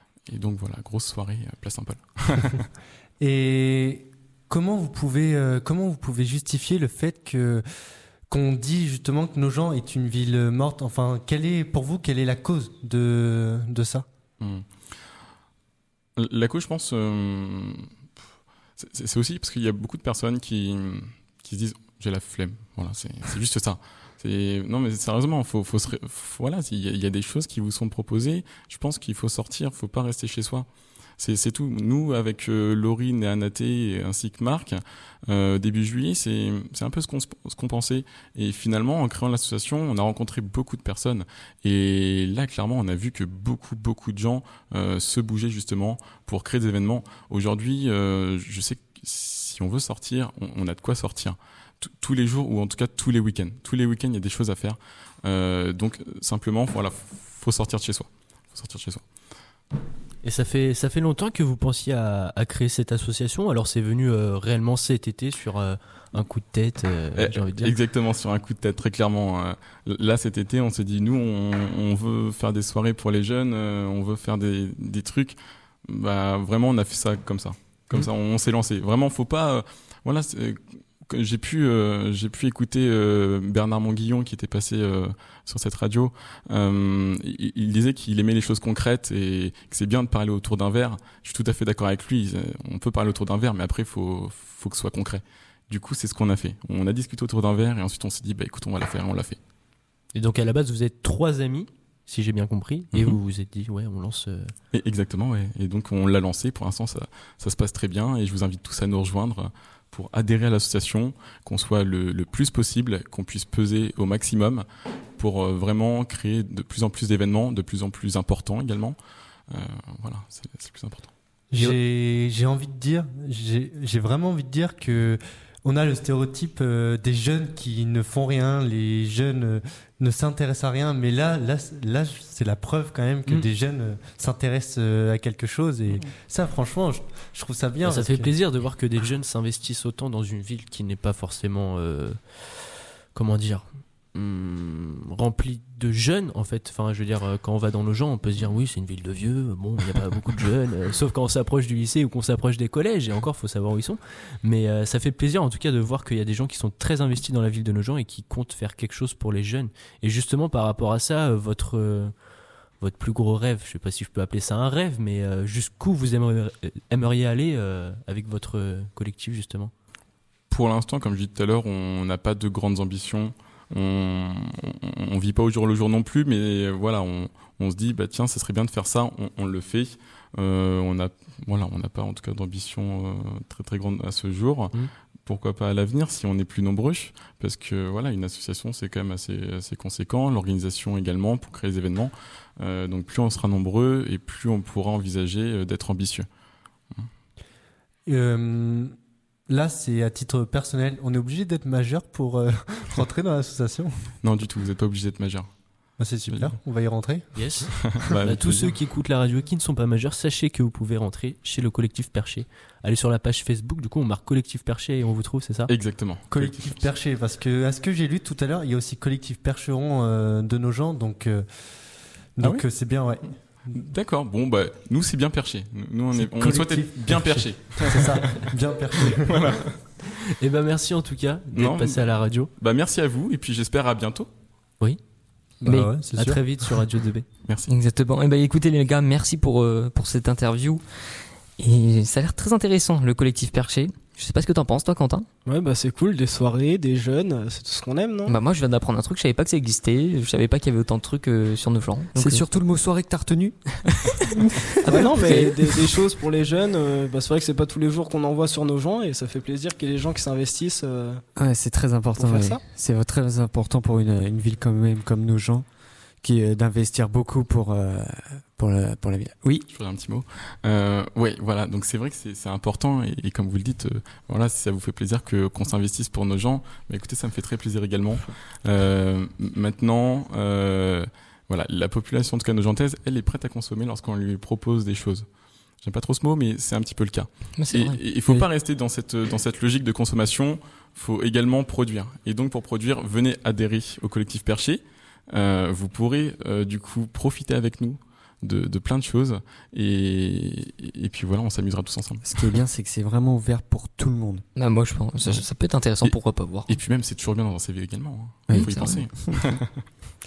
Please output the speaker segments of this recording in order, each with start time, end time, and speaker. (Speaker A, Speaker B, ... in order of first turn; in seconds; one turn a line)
Speaker A: 0.3-2.7
Speaker B: 3.2-7.7
Speaker B: 8.3-14.1
Speaker A: 14.4-14.7
Speaker A: 16.2-17.9
Speaker A: 18.8-30.7
Speaker A: 31.2-59.0
Speaker C: 60.2-67.8
Speaker A: 67.2-99.4
Speaker C: 100.1-104.5
Speaker A: 104.7-114.6
Speaker A: 115.2-119.0
Speaker A: 119.5-121.1
Speaker B: 121.5-138.3
Speaker C: 137.8-162.1
Speaker C: 162.8-169.7
Speaker A: 170.5-196.3
Speaker B: 198.1-198.9
Speaker B: 199.5-204.1
Speaker A: 204.2-205.5
Speaker B: 206.0-208.2
Speaker A: 206.3-206.5
Speaker C: 207.3-207.7
Speaker A: 207.9-208.7
Speaker C: 208.2-215.7
Speaker A: 215.7-216.8
Speaker B: 216.3-221.5
Speaker B: 222.4-223.3
Speaker A: 223.7-228.5
Speaker B: 226.1-229.4
Speaker A: 229.0-229.8
Speaker C: 230.1-232.5
Speaker A: 231.5-234.3
Speaker B: 235.6-236.4
Speaker D: 235.6-236.0
Speaker C: 236.1-237.2
Speaker A: 237.4-237.8
Speaker D: 237.7-240.8
Speaker D: 241.6-245.2
Speaker E: 245.5-248.4
Speaker D: 248.2-252.4
Speaker F: 252.2-254.3
Speaker D: 254.7-255.9
Speaker E: 254.9-261.2
Speaker F: 261.4-265.6
Speaker E: 262.1-262.6
Speaker F: 266.2-269.6
Speaker A: 269.7-285.2
Speaker A: 285.8-302.6
Speaker D: 287.6-288.5
Speaker F: 302.2-304.4
Speaker D: 304.6-306.8
Speaker A: 306.0-309.9
Speaker F: 308.5-308.7
Speaker D: 308.5-309.1